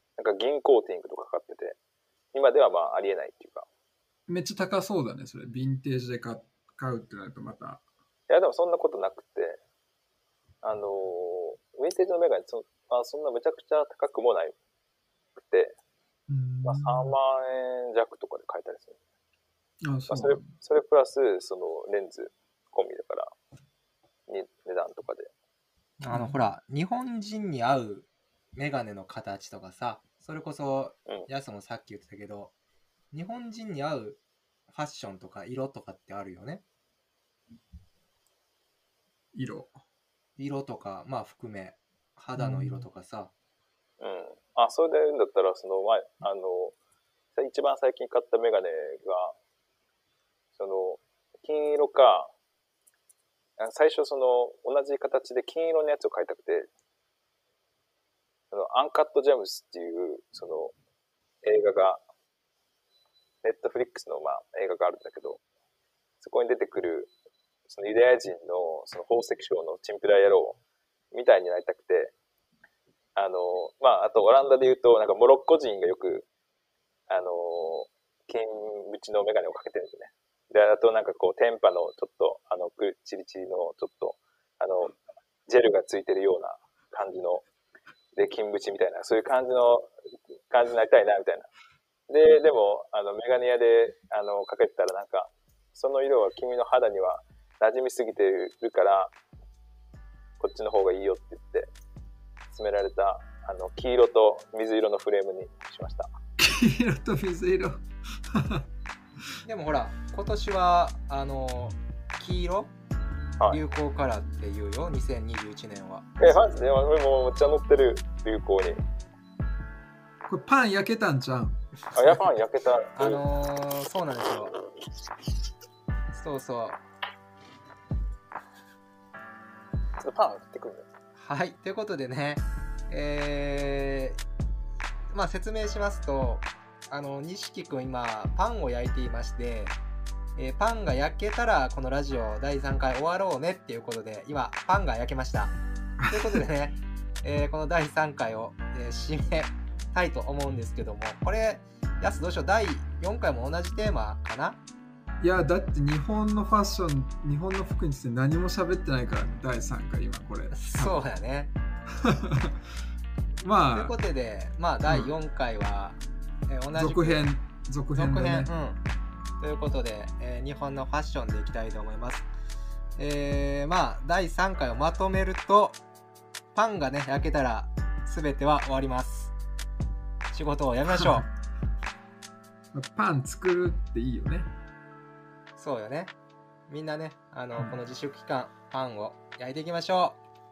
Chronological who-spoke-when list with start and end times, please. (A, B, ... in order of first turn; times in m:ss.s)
0:00.2-0:01.8 A
0:02.3-0:03.7 A
0:04.3-0:07.8 B
0:08.3-0:09.6 A
0:10.6-0:14.6 A
0:15.4-0:15.8 A
0:16.3-0:17.1 B
0:16.6-0:19.0 A
0:19.8-0:20.5 B
0:20.1-0:23.3 A
0:24.3-0:25.3 A
0:26.0-0:32.5 C
0:26.1-0:26.5 B
0:33.1-0:36.6 C
0:39.3-0:39.8 B
0:40.4-0:43.3 C
0:42.4-0:42.9 B
0:44.0-0:46.8 A
0:47.3-0:49.4 A
0:50.6-0:52.3 A
0:53.6-0:56.7 A
0:58.5-1:00.8 A
1:01.4-1:02.0 A
1:03.4-1:05.4 A
1:06.2-1:07.1 A
1:07.7-1:10.6 A
1:11.1-1:12.1 A
1:13.2-1:16.3 A
1:17.1-1:27.4 A
1:28.2-1:29.9 A
1:30.5-1:31.5 A
1:32.1-1:39.2 A
1:40.4-1:41.7 A
1:42.5-1:46.1 A
1:46.4-1:47.8 B
1:48.3-1:48.6 B
1:49.4-1:52.7 C
1:53.5-1:56.0 C
1:56.2-1:58.8 A
2:00.3-2:02.2 B
2:01.9-2:03.2 A
2:03.0-2:04.6 C
2:06.1-2:06.8 C
2:10.0-2:10.9 A
2:11.2-2:14.2 C
2:15.1-2:19.7 C
2:20.4-2:25.6 C
2:26.0-2:26.4 B
2:26.1-2:34.6 C
2:35.2-2:41.0 B
2:40.5-2:41.5 C
2:42.0-2:42.6 B
2:43.4-2:44.0 B
2:43.7-2:47.3 C
2:44.8-2:45.1 B
2:46.7-2:48.5 B
2:48.0-2:48.8 C
2:49.4-2:52.3 C
2:53.0-2:55.8 C
2:56.5-2:59.3 C
3:00.3-3:01.3 C
3:01.0-3:01.2 B
3:02.7-3:04.5 B
3:05.6-3:06.1 C
3:06.7-3:10.2 C